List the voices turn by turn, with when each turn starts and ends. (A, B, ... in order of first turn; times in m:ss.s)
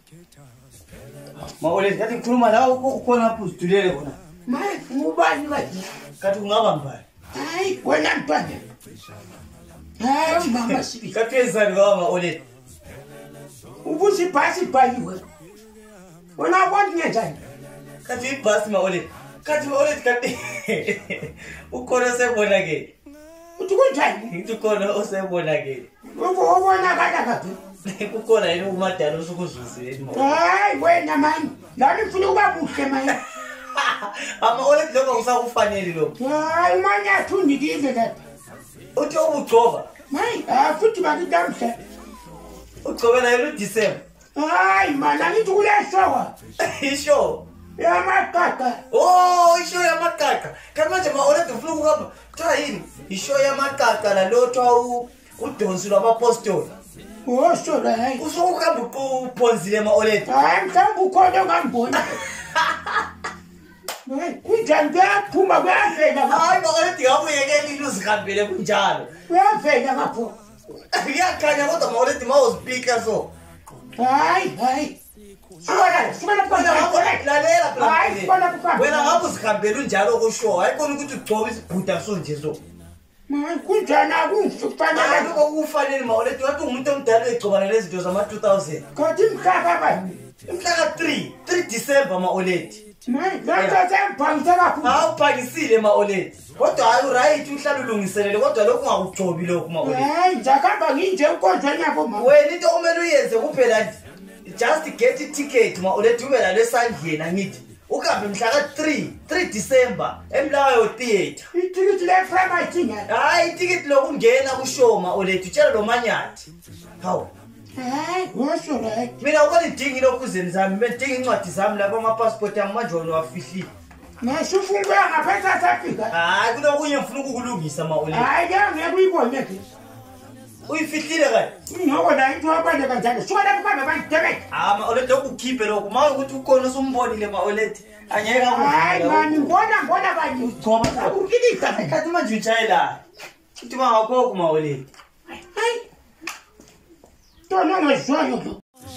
0:01.6-0:04.2 A
0:04.5-0:05.9 B
0:06.2-0:07.0 A
0:07.3-0:08.6 B
0:10.0-0:11.1 B
0:10.3-0:12.4 A
0:13.8-0:15.2 B
0:16.4-0:17.4 B
0:18.0-0:22.9 A
0:23.6-0:24.3 B
0:24.3-0:25.9 A
0:26.1-0:27.6 B
0:27.8-0:30.4 A
0:30.1-0:33.2 B
0:33.1-0:36.2 A
0:36.2-0:38.2 B
0:39.0-0:39.9 A
0:40.1-0:41.8 B
0:42.8-0:44.0 A
0:44.4-0:46.3 B
0:46.6-0:47.4 A
0:47.8-0:48.8 B
0:48.9-0:56.7 A
0:57.2-0:58.2 B
0:58.2-1:00.3 A
1:00.3-1:02.2 B
1:02.0-1:03.0 A
1:04.1-1:06.6 B
1:06.2-1:09.1 A
1:09.3-1:10.4 B
1:10.9-1:13.3 A
1:14.0-1:15.0 B
1:15.6-1:17.2 B
1:15.7-1:22.6 A
1:17.8-1:19.3 B
1:23.3-1:25.3 B
1:24.9-1:28.8 A
1:28.9-1:30.2 B
1:30.5-1:32.8 A
1:33.0-1:35.0 B
1:33.6-1:33.8 A
1:34.8-1:40.1 A
1:39.8-1:42.3 B
1:42.2-1:51.5 A
1:51.5-1:53.1 B
1:53.1-1:56.5 A
1:57.0-1:57.3 A
1:57.8-1:59.1 B
1:59.2-2:03.7 A
2:04.2-2:06.2 B
2:06.1-2:08.3 A
2:08.1-2:09.6 B
2:10.7-2:11.5 A
2:11.7-2:14.4 B
2:14.5-2:19.5 A
2:18.5-2:21.9 B
2:20.4-2:23.0 A
2:23.6-2:24.9 A
2:25.4-2:25.8 B
2:27.5-2:28.6 B